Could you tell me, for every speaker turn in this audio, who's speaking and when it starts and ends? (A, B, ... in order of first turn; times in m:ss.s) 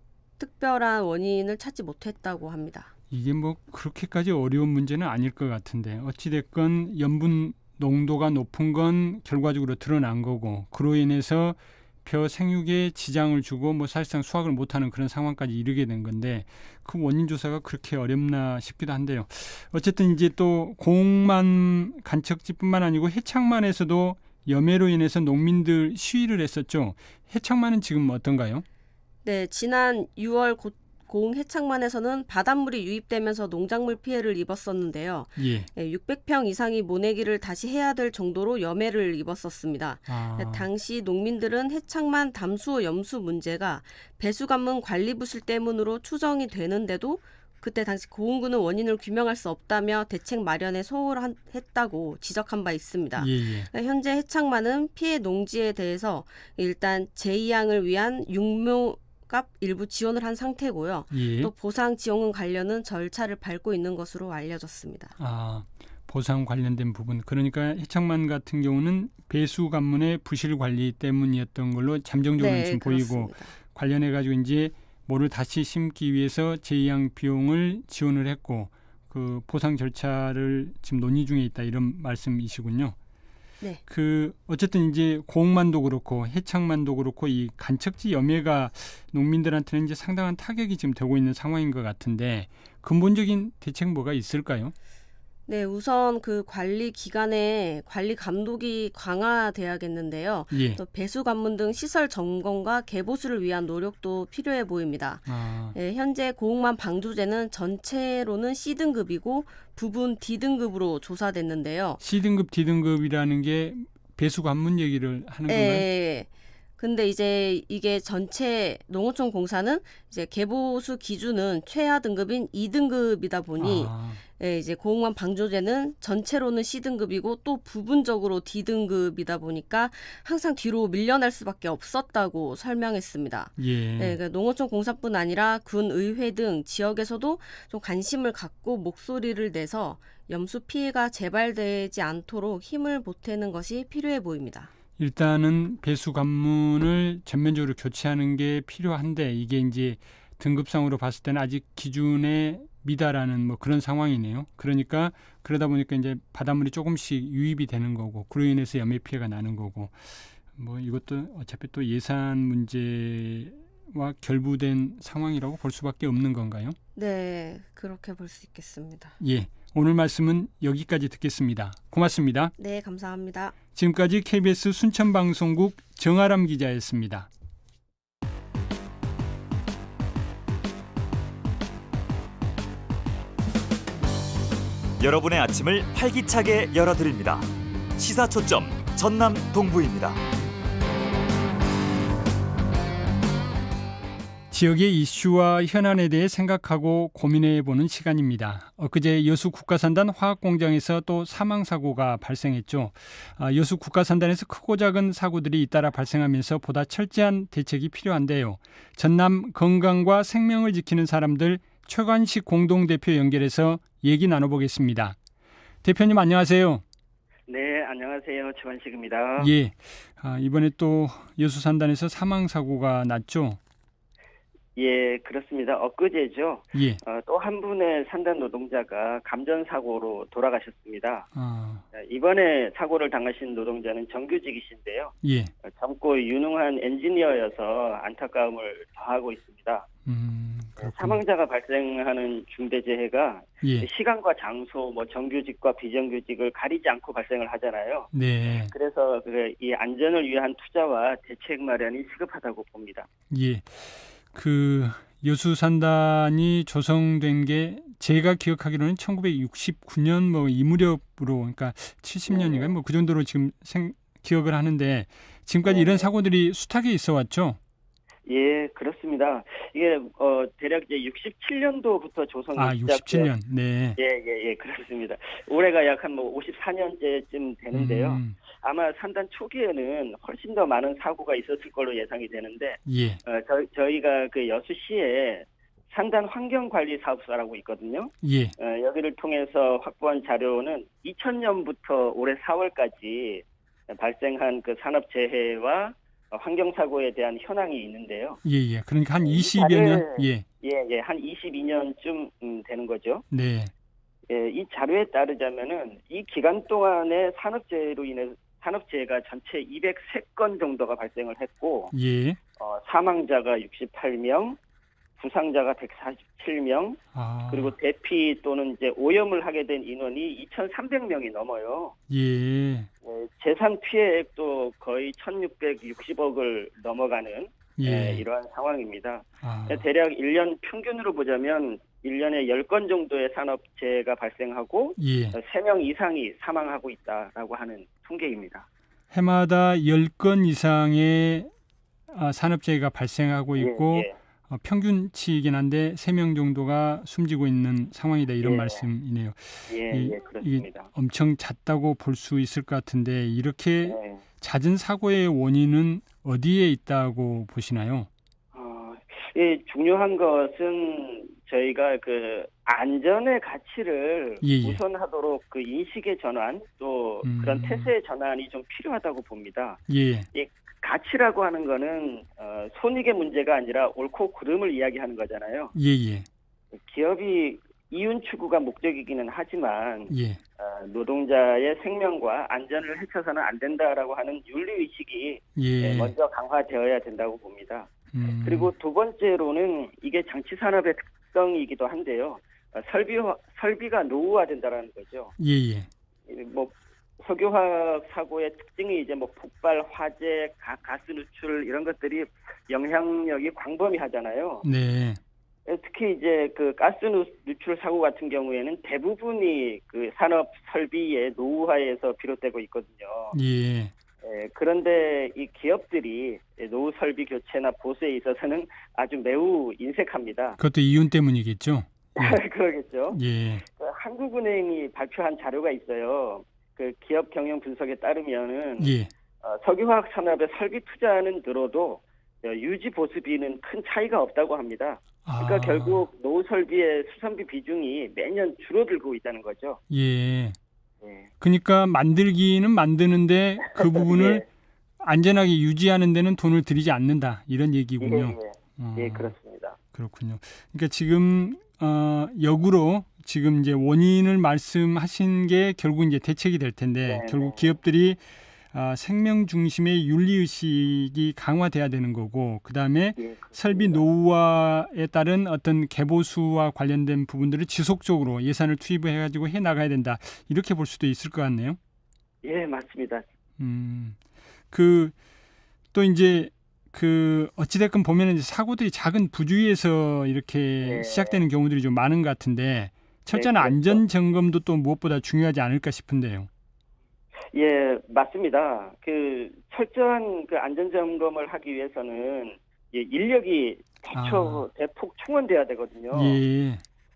0:00.4-0:02.9 A
0:03.1-0:28.6 B
0:29.2-1:05.1 A
0:35.4-0:35.7 B
0:40.1-0:40.7 B
0:53.2-0:53.7 B
1:01.1-1:01.5 B
1:05.2-1:23.0 B
1:12.4-1:13.5 A
1:23.9-1:34.7 B
1:35.5-1:52.0 A
1:40.5-1:40.8 B
1:45.3-1:45.8 B
1:52.0-1:55.9 B
1:55.5-2:24.7 A
2:03.6-2:04.2 B
2:13.6-2:14.2 B
2:25.0-2:46.8 B
2:46.9-2:49.2 A
2:49.2-2:52.5 B
2:52.6-2:53.5 A
2:53.7-2:57.3 B
3:05.0-3:10.2 C
3:14.5-3:35.2 B
3:35.8-3:36.8 B
3:37.5-3:39.5 D
3:39.4-3:43.6 B
3:44.8-3:51.3 D
3:46.7-3:47.0 B
3:51.3-3:51.8 B
3:51.9-3:59.9 D
3:55.2-3:55.5 B
4:00.0-4:01.2 B
4:00.8-4:08.1 D
4:03.6-4:03.9 B
4:08.1-4:08.7 B
4:08.7-4:13.1 D
4:13.3-4:27.6 B
4:22.3-4:22.7 D
4:25.6-4:26.1 D
4:28.3-4:33.3 D
4:32.6-4:34.0 B
4:34.0-4:58.4 D
4:37.7-4:38.3 B
4:42.8-4:43.2 B
4:48.2-4:48.5 B
4:58.4-5:00.4 B
4:59.2-5:03.2 D
5:03.3-5:03.7 B
5:04.3-5:11.9 D
5:11.9-5:12.4 B
5:12.6-5:14.6 D
5:15.2-5:21.9 D
5:17.1-5:17.7 B
5:22.1-5:22.9 B
5:23.0-5:38.6 D
5:27.8-5:28.2 B
5:29.4-5:29.8 B
5:35.0-5:35.4 B
5:39.1-5:41.5 B
5:42.1-5:58.1 B
5:43.6-5:44.1 D
5:48.4-5:48.8 D
5:49.7-5:50.9 D
5:53.8-5:54.2 D
5:58.5-6:09.8 D
6:04.4-6:04.8 B
6:07.2-6:07.9 B
6:09.9-6:10.3 B
6:10.3-6:15.7 D
6:15.7-6:16.3 B
6:16.8-6:27.9 D
6:20.1-6:20.4 B
6:25.6-6:26.1 B
6:28.1-6:28.7 B
6:28.4-6:35.3 D
6:35.4-6:35.9 B
6:36.3-6:44.6 D
6:44.6-6:45.2 B
6:45.7-6:53.4 D
6:53.3-6:53.9 B
6:54.2-7:00.6 D
7:00.6-7:02.4 B
7:02.2-7:03.2 D
7:03.1-7:03.6 B
7:03.8-7:08.9 D
7:08.8-7:09.1 B
7:09.4-7:19.8 D
7:15.2-7:16.1 B
7:19.9-7:20.6 B
7:21.0-7:21.3 D
7:21.4-7:24.4 B
7:23.6-7:24.4 D
7:25.0-7:29.3 B
7:28.0-7:29.8 D
7:29.9-7:51.8 B
7:37.0-7:37.7 D
7:43.2-7:44.0 D
7:52.4-7:53.2 D
7:53.6-7:54.2 B
7:54.7-7:55.1 B
7:55.9-8:06.5 B
8:00.8-8:01.4 D
8:03.3-8:04.0 D
8:07.5-8:16.4 D
8:14.1-8:14.7 B
8:16.1-8:16.8 B